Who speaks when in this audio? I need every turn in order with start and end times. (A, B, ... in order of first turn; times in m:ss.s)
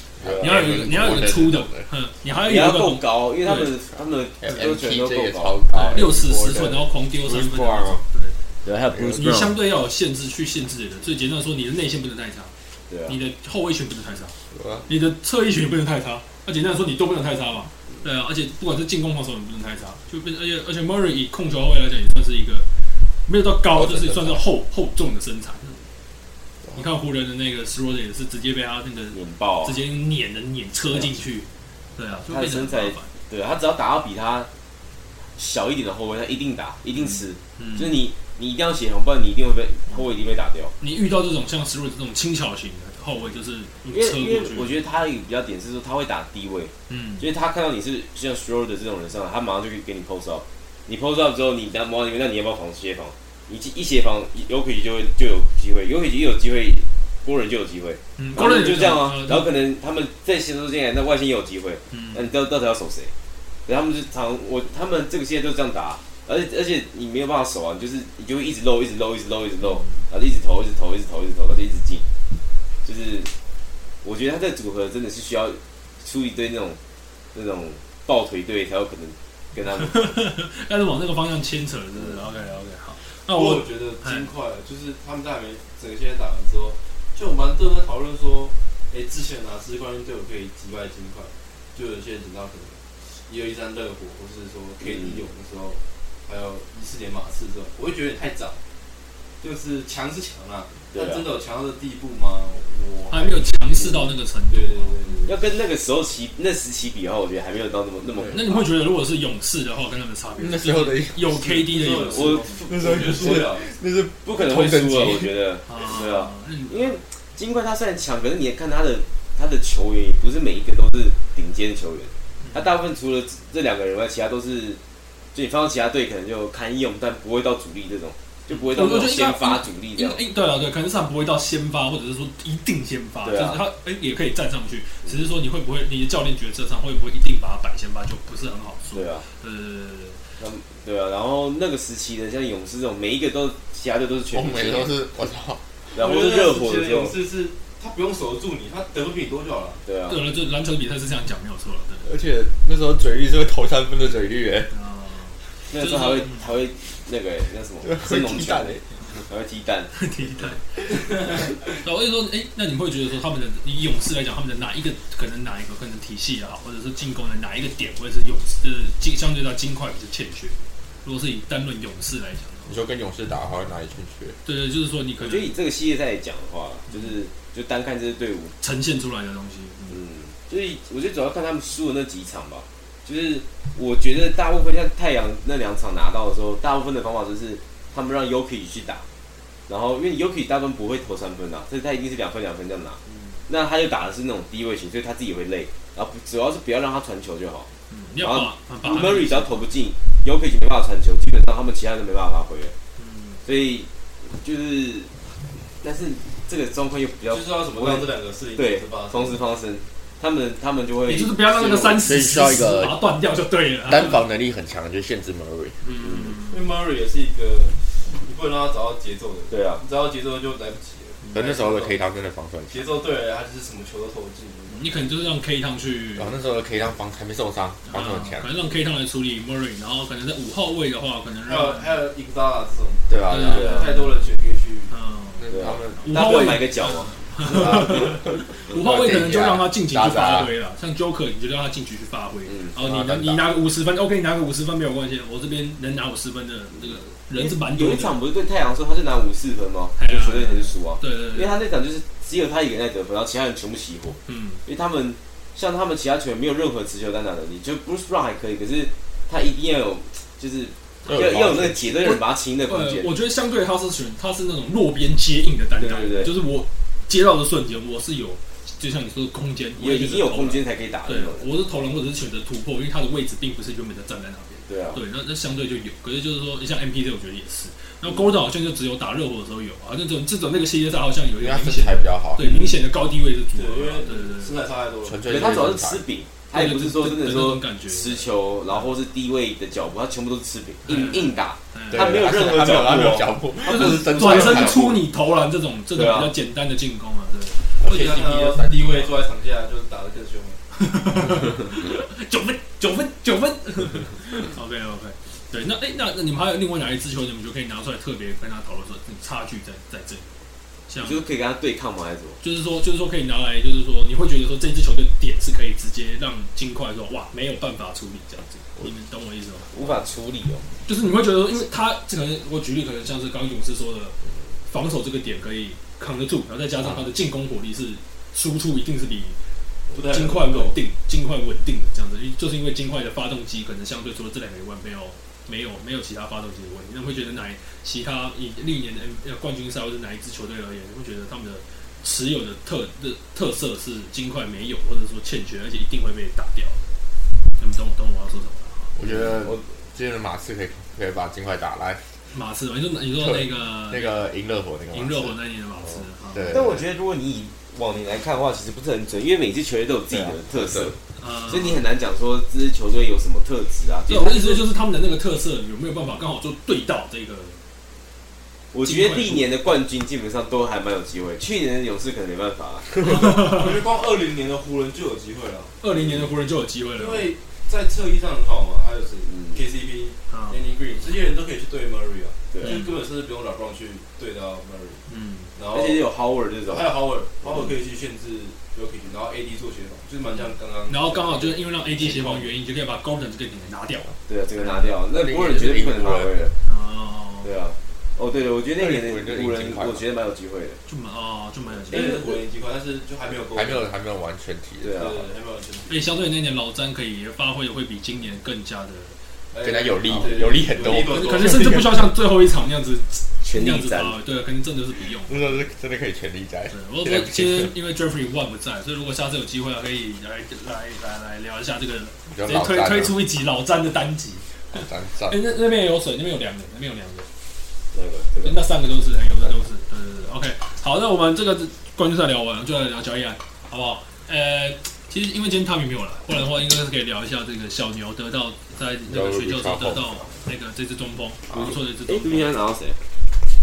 0:00.2-0:01.9 A
0:00.2-0:00.8 B
0:00.4-0:03.7 C
0:02.4-0:05.6 B
0:04.4-0:08.0 A
0:05.7-0:08.4 C
0:08.6-0:09.5 B
0:08.9-0:09.4 A
0:09.1-0:12.5 C
0:12.9-0:13.2 B
0:13.1-0:14.4 C
0:14.5-0:14.9 A
0:14.9-0:22.6 C
0:23.2-0:25.8 C
0:23.7-0:24.4 A
0:26.7-0:33.1 C
0:29.1-0:29.8 B
0:32.3-0:34.5 B
0:35.4-0:40.7 B
0:37.0-0:38.0 C
0:40.8-0:44.8 C
0:43.9-1:03.1 B
0:46.9-0:47.3 C
0:58.2-0:59.5 C
1:01.9-1:02.3 C
1:03.6-1:12.0 B
1:09.6-1:10.0 C
1:12.8-1:13.3 B
1:14.0-1:16.8 B
1:17.3-1:20.1 B
1:19.8-1:24.3 C
1:23.3-1:38.6 D
1:34.8-1:35.3 B
1:39.4-1:43.9 D
1:40.9-1:41.3 B
1:43.1-1:45.3 C
1:44.5-1:45.3 D
1:45.2-1:48.7 B
1:48.3-1:52.6 C
1:50.4-1:51.8 A
1:51.6-1:53.7 D
1:52.1-1:53.5 B
1:52.7-1:55.3 A
1:54.2-2:04.8 B
1:55.6-1:57.0 C
2:02.4-2:02.8 C
2:05.3-2:10.2 B
2:08.5-2:20.2 C
2:13.2-2:13.6 B
2:18.9-2:19.2 B
2:20.4-2:24.9 B
2:24.3-2:25.6 A
2:25.9-2:27.2 B
2:25.9-2:29.8 D
2:29.8-2:30.2 B
2:30.1-2:32.1 C
2:32.0-2:34.7 A
2:34.7-2:36.5 C
2:35.7-2:39.9 B
2:37.8-2:38.9 A
2:39.9-2:52.8 C
2:52.7-2:54.4 A
2:54.4-2:55.5 C
2:55.2-2:58.5 B
2:58.6-3:00.0 C
2:59.9-3:09.0 B
3:09.7-3:17.7 B
3:13.1-3:13.3 C
3:17.9-3:19.6 C
3:18.2-3:22.7 B
3:23.0-3:23.4 C
3:23.4-3:25.1 B
3:25.8-3:32.0 B
3:27.3-3:29.4 D
3:31.1-3:34.2 C
3:32.0-3:33.0 A
3:33.9-3:35.8 A
3:35.8-3:36.6 C
3:36.0-3:36.4 B
3:36.5-3:42.0 D
3:39.5-3:39.8 B
3:41.3-3:42.9 A
3:42.7-3:45.1 D
3:44.7-3:46.3 C
3:46.2-3:48.5 A
3:47.9-3:51.9 C
3:51.4-3:54.9 D
3:53.1-3:53.8 A
3:53.3-3:54.1 C
3:53.5-3:53.9 B
3:54.9-4:08.1 C
3:55.4-3:56.6 A
3:55.5-3:58.4 B
3:57.4-4:00.5 A
4:02.7-4:03.4 A
4:06.8-4:23.1 B
4:10.0-4:11.6 C
4:14.3-4:14.6 C
4:21.0-4:22.0 A
4:21.0-4:44.6 C
4:25.8-4:26.3 B
4:29.8-4:31.5 B
4:34.7-4:35.0 B
4:38.0-4:38.3 B
4:41.4-4:42.4 A
4:42.4-4:42.8 B
4:43.5-4:45.5 D
4:45.0-4:46.0 A
4:45.3-4:54.8 B
4:46.5-4:49.0 C
4:50.8-4:52.3 C
4:51.9-4:55.0 A
4:53.6-4:58.2 C
4:55.9-4:56.3 B
4:57.8-4:59.2 A
4:57.8-5:00.6 D
5:00.7-5:10.2 C
5:10.9-5:11.2 C
5:11.0-5:12.4 B
5:12.4-5:20.0 C
5:19.7-5:20.6 B
5:20.8-5:24.2 C
5:24.7-5:29.3 C
5:29.9-5:30.8 D
5:30.0-5:46.8 C
5:47.6-5:48.9 C
5:49.0-5:52.0 A
5:49.0-5:49.7 B
5:52.3-5:54.3 C
5:53.1-5:55.4 A
5:54.9-5:56.6 C
5:56.3-5:56.8 A
5:56.5-6:01.0 B
6:00.1-6:00.9 A
6:01.2-6:01.8 C
6:01.5-6:04.6 B
6:04.1-6:07.6 C
6:08.7-6:13.3 B
6:08.8-6:09.5 C
6:13.0-6:13.7 C
6:13.2-6:15.7 D
6:15.8-6:17.3 C
6:17.0-6:25.0 D
6:19.3-6:19.6 B
6:20.3-6:20.6 C
6:22.5-6:22.8 B
6:22.6-6:23.0 C
6:25.1-6:25.5 C
6:25.5-6:26.1 D
6:25.7-6:27.7 B
6:26.7-6:32.5 D
6:30.9-6:35.0 C
6:34.3-6:36.5 B
6:35.1-6:36.4 A
6:36.6-6:37.5 C
6:37.4-6:40.8 B
6:38.8-6:40.1 A
6:40.9-6:42.1 C
6:41.9-6:42.4 B
6:41.9-6:43.9 D
6:43.5-6:45.0 A
6:44.8-6:45.3 B
6:44.8-6:46.0 D
6:45.9-6:49.1 C
6:49.5-6:51.8 D
6:49.6-6:52.1 A
6:50.1-6:55.6 C
6:53.4-6:54.2 B
6:55.2-6:57.7 A
6:56.7-7:07.3 C
7:02.3-7:03.2 A
7:04.7-7:05.4 A
7:07.9-7:08.6 B
7:08.4-7:22.6 C
7:19.1-7:20.3 A
7:21.5-7:23.0 B